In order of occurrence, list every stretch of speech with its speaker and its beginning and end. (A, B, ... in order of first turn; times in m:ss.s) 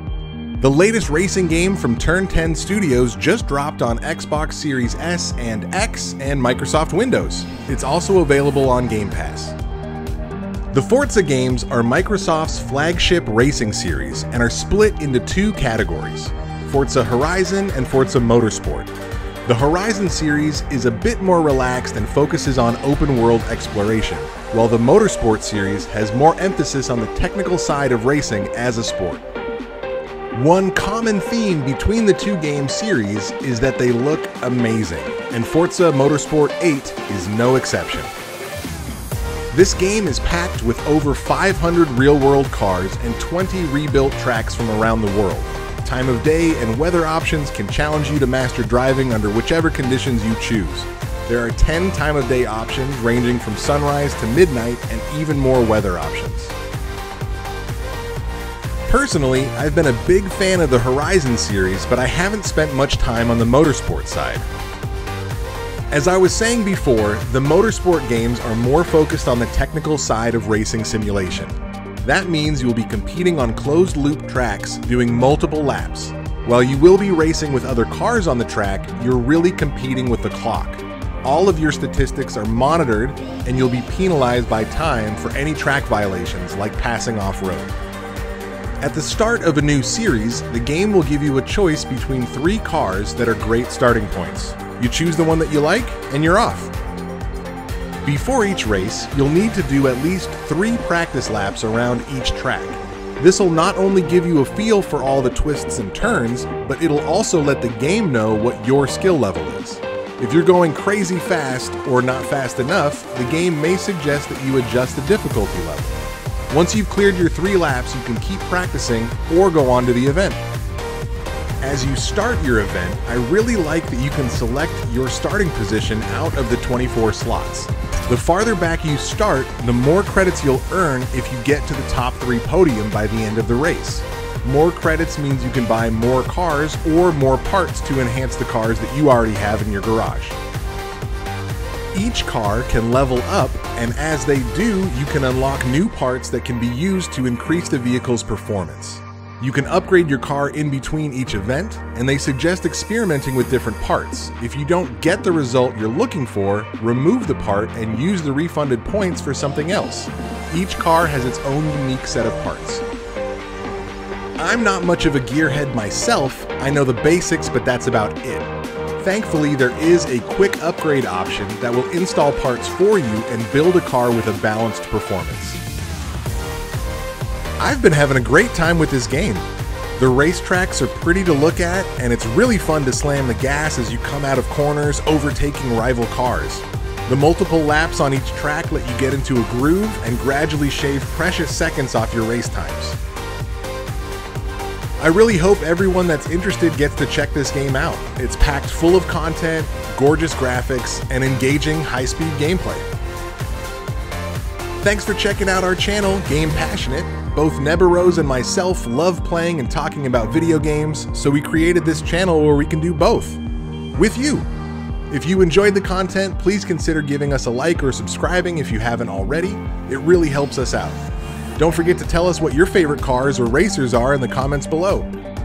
0:00.6-0:09.6 A
0:10.7-0:18.9 A
0:19.4-0:29.2 A
0:30.3-0:38.1 A
0:39.5-0:56.5 A
0:58.8-1:04.4 A
1:05.9-1:27.7 A
1:28.8-1:36.7 A
1:38.0-1:56.0 A
1:56.5-2:00.4 A
2:01.6-2:20.4 A
2:21.9-2:42.8 A
2:44.4-2:55.6 A
2:57.6-2:59.4 A
3:00.0-3:13.0 A
3:15.0-3:22.9 A
3:24.8-3:33.4 A
3:33.9-3:34.5 A
3:35.1-3:41.0 A
3:41.6-3:45.1 A